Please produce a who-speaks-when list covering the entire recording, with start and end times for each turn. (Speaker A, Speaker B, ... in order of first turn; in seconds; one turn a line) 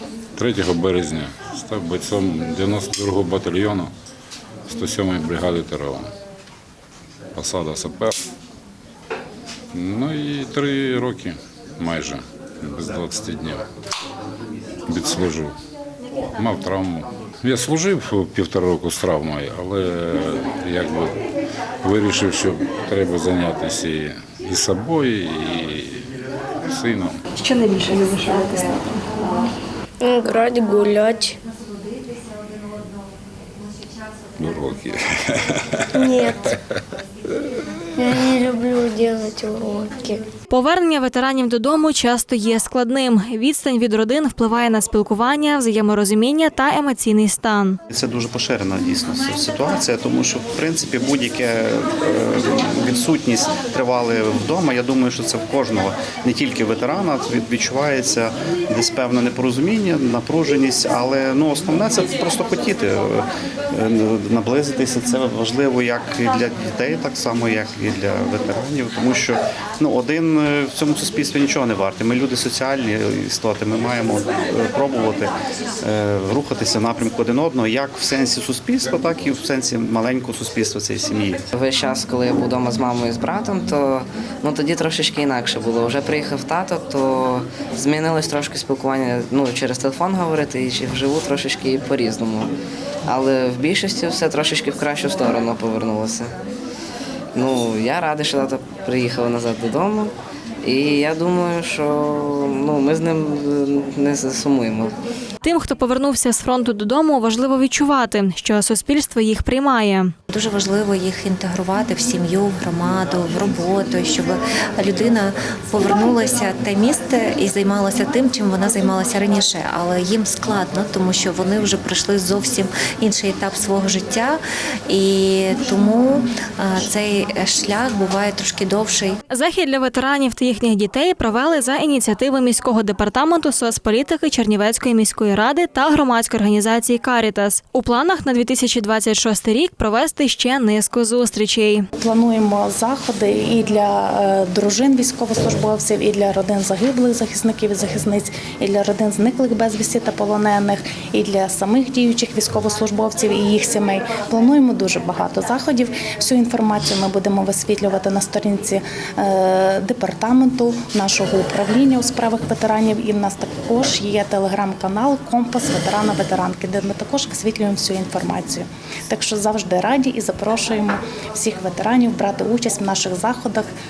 Speaker A: 0.3-3.9
Speaker A: 4.7-6.1
Speaker A: 7.3-8.2
Speaker A: 9.7-13.6
Speaker A: 14.9-15.5
Speaker A: 16.4-21.2
Speaker A: 21.8-26.0
Speaker A: 26.7-27.2
Speaker B: 27.4-28.8
Speaker C: 30.0-31.4
Speaker A: 34.4-36.6
Speaker C: 35.9-36.4
Speaker C: 38.0-40.2
Speaker B: 40.5-47.8
Speaker D: 47.9-81.4
Speaker E: 81.5-92.5
Speaker E: 93.1-96.3
Speaker E: 97.3-104.9
Speaker B: 105.4-110.1
Speaker F: 110.3-129.2
Speaker B: 129.3-141.9
Speaker G: 141.9-173.7